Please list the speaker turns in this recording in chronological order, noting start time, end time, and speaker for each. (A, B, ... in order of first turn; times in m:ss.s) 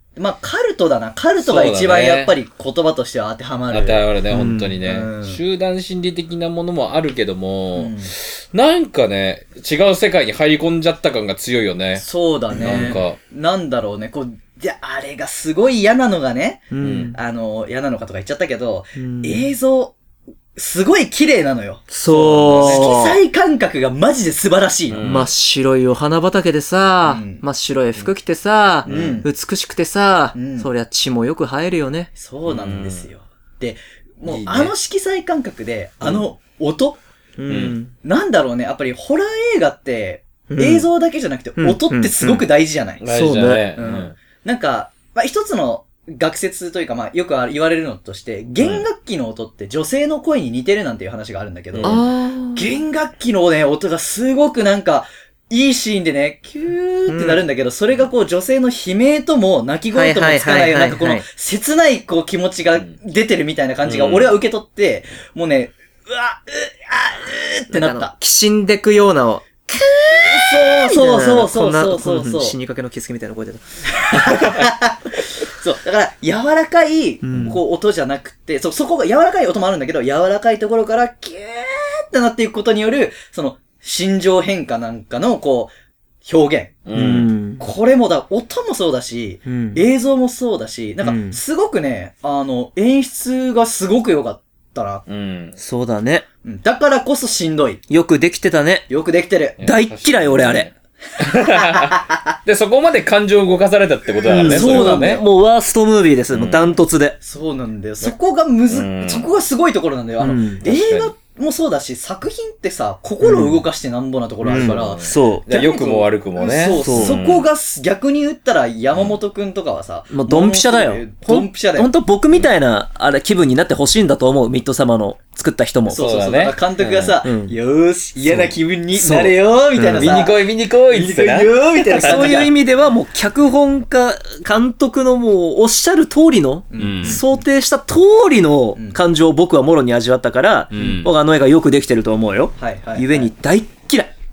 0:00.2-0:04.0 A
0:01.4-0:02.3 B
0:03.7-0:13.2 B
0:04.3-0:04.8 C
0:04.8-0:05.4 A
0:07.8-0:08.1 A
0:12.0-0:20.0 A
0:12.6-0:13.0 C
0:16.7-0:17.2 C
0:16.8-0:17.2 B
0:19.0-0:19.5 C
0:20.6-0:25.0 A
0:21.9-0:23.2 C
0:22.3-0:22.9 B
0:24.9-0:25.3 B
0:25.0-0:32.1 C
0:27.0-0:27.4 A
0:28.8-0:29.3 A
0:28.8-0:29.2 B
0:30.3-0:30.7 A
0:32.2-0:37.0 A
0:32.5-0:33.0 B
0:34.2-0:34.7 B
0:37.4-0:37.9 C
0:37.5-0:37.8 B
0:38.0-0:43.0 A
0:40.5-0:40.9 C
0:41.6-0:42.4 C
0:43.0-0:44.1 B
0:43.1-0:43.6 C
0:43.8-1:08.1 A
0:48.6-0:48.8 B
0:51.7-0:52.0 B
0:51.8-0:52.6 C
0:57.1-0:57.4 C
0:59.9-1:01.2 C
1:03.8-1:04.4 B
1:07.7-1:13.6 C
1:10.1-1:12.6 A
1:13.9-1:25.7 A
1:14.3-1:14.6 B
1:17.2-1:17.6 C
1:26.2-1:26.7 A
1:26.8-1:27.3 B
1:26.9-1:27.6 C
1:27.6-1:35.0 A
1:29.4-1:29.8 C
1:31.0-1:31.4 C
1:35.1-1:35.5 B
1:35.6-1:36.2 C
1:36.4-1:37.8 A
1:37.9-1:38.9 C
1:38.9-1:39.6 A
1:39.6-1:45.2 B
1:39.6-1:40.7 C
1:41.3-1:42.2 A
1:44.2-1:47.2 C
1:44.4-1:45.2 A
1:46.3-1:46.7 B
1:47.2-2:01.9 A
1:48.7-1:49.3 B
1:50.2-1:50.6 C
1:50.6-1:51.1 B
1:53.2-1:53.6 C
1:54.5-1:55.4 C
1:54.5-1:57.4 B
1:56.8-1:57.2 C
2:00.1-2:06.0 C
2:05.9-2:12.5 A
2:05.9-2:07.1 B
2:07.2-2:07.6 C
2:08.2-2:10.2 C
2:10.0-2:12.5 B
2:11.9-2:24.1 C
2:16.7-2:17.2 A
2:16.8-2:17.2 B
2:20.7-2:21.1 B
2:20.8-2:21.0 A
2:22.6-2:23.3 A